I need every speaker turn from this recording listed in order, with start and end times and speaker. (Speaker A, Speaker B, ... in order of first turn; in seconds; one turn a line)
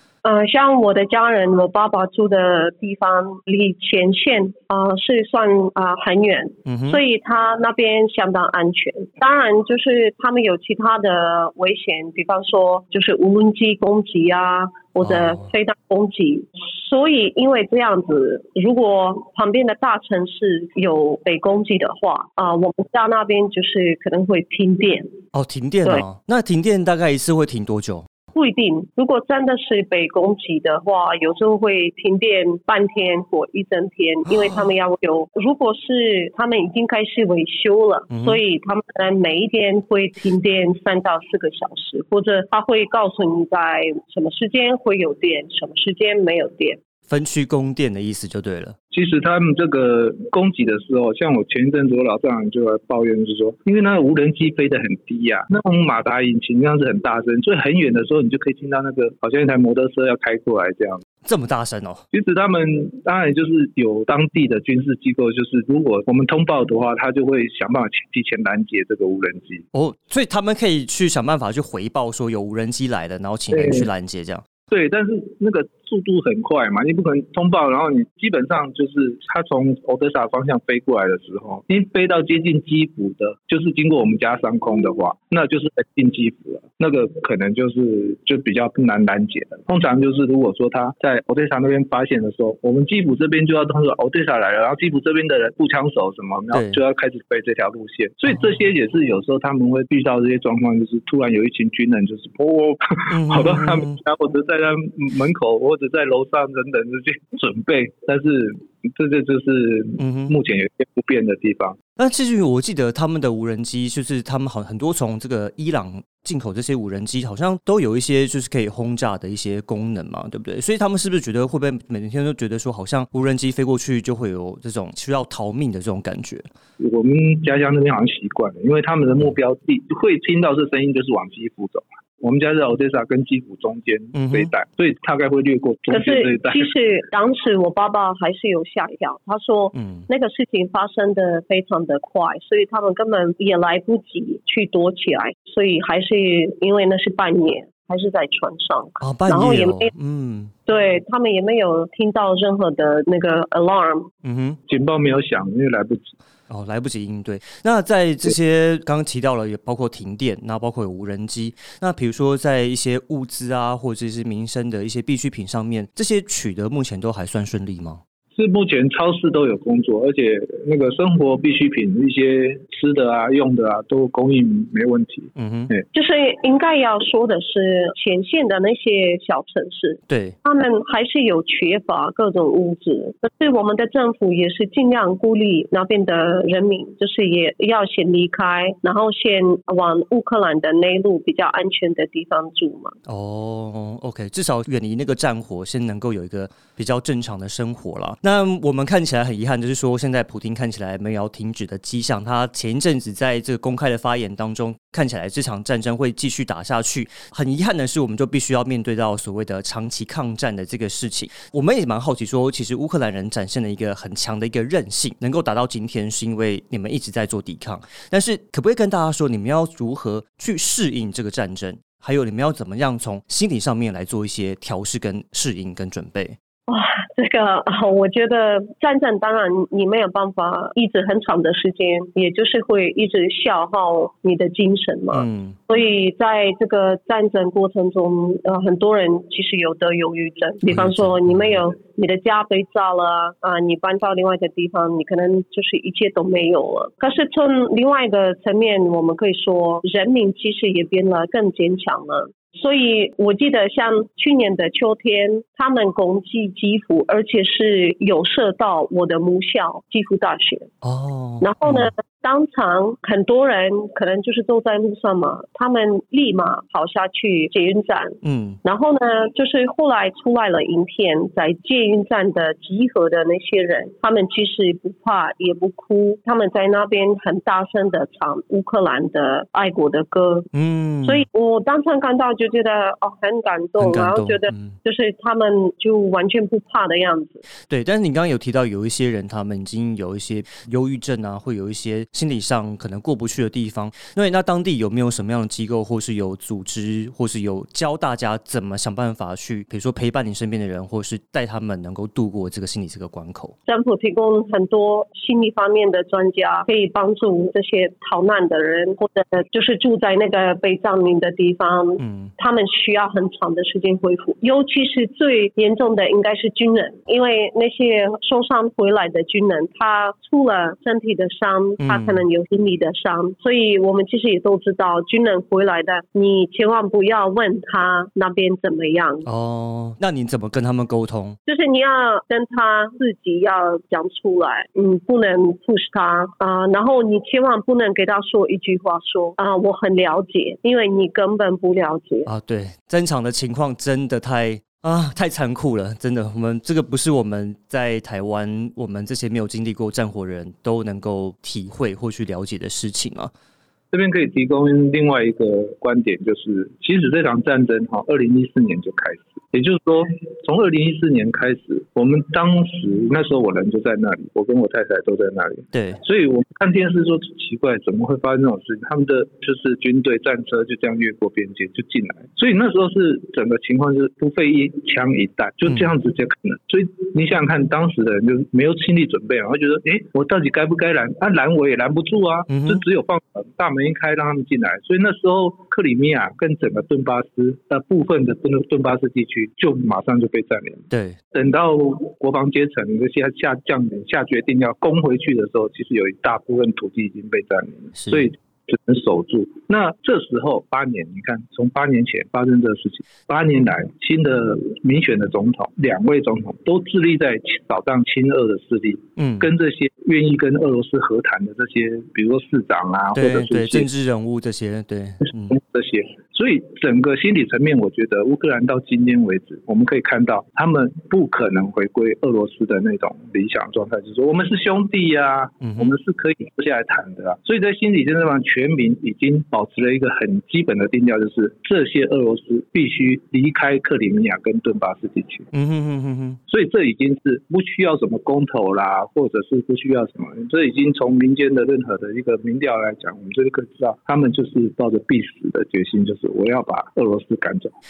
Speaker A: 0.2-25.1
Speaker B: 6.7-7.0
Speaker B: 15.1-15.4
Speaker B: 25.3-28.1
Speaker A: 28.3-46.8
Speaker B: 38.1-38.4
Speaker B: 47.1-48.8
Speaker C: 48.9-61.0
Speaker B: 61.2-62.0
Speaker C: 62.1-69.7
Speaker B: 69.7-74.4
Speaker C: 73.5-73.9
Speaker C: 74.7-111.8
Speaker B: 96.5-96.8
Speaker B: 103.1-104.0
Speaker B: 110.0-110.4
Speaker B: 112.0-126.5
Speaker C: 126.8-136.7
Speaker B: 134.2-134.5
Speaker A: 135.9-149.9
Speaker B: 139.7-140.1
Speaker B: 149.0-150.5
Speaker A: 150.7-154.1
Speaker B: 154.2-154.6
Speaker C: 154.7-156.2
Speaker B: 156.5-168.0
Speaker C: 168.3-175.8
Speaker B: 175.4-175.7
Speaker A: 175.9-192.9
Speaker B: 180.1-180.3
Speaker B: 193.1-226.4
Speaker A: 226.7-260.7
Speaker B: 235.1-235.6
Speaker B: 240.7-241.6
Speaker B: 260.8-261.9
Speaker A: 261.4-280.5
Speaker B: 268.2-268.6
Speaker B: 280.5-281.2
Speaker A: 281.1-287.4
Speaker B: 283.8-284.8
Speaker B: 287.7-303.6
Speaker A: 303.7-329.3
Speaker B: 312.0-312.3
Speaker B: 321.8-322.2
Speaker B: 329.3-331.4
Speaker A: 331.5-342.3
Speaker B: 342.3-353.3
Speaker C: 353.9-413.9
Speaker B: 365.7-366.0
Speaker B: 382.5-382.8
Speaker B: 390.9-391.2
Speaker B: 397.9-398.3
Speaker B: 409.2-409.5
Speaker B: 413.1-415.6
Speaker C: 415.5-435.5
Speaker B: 425.6-425.9
Speaker B: 435.5-436.4
Speaker C: 436.5-447.7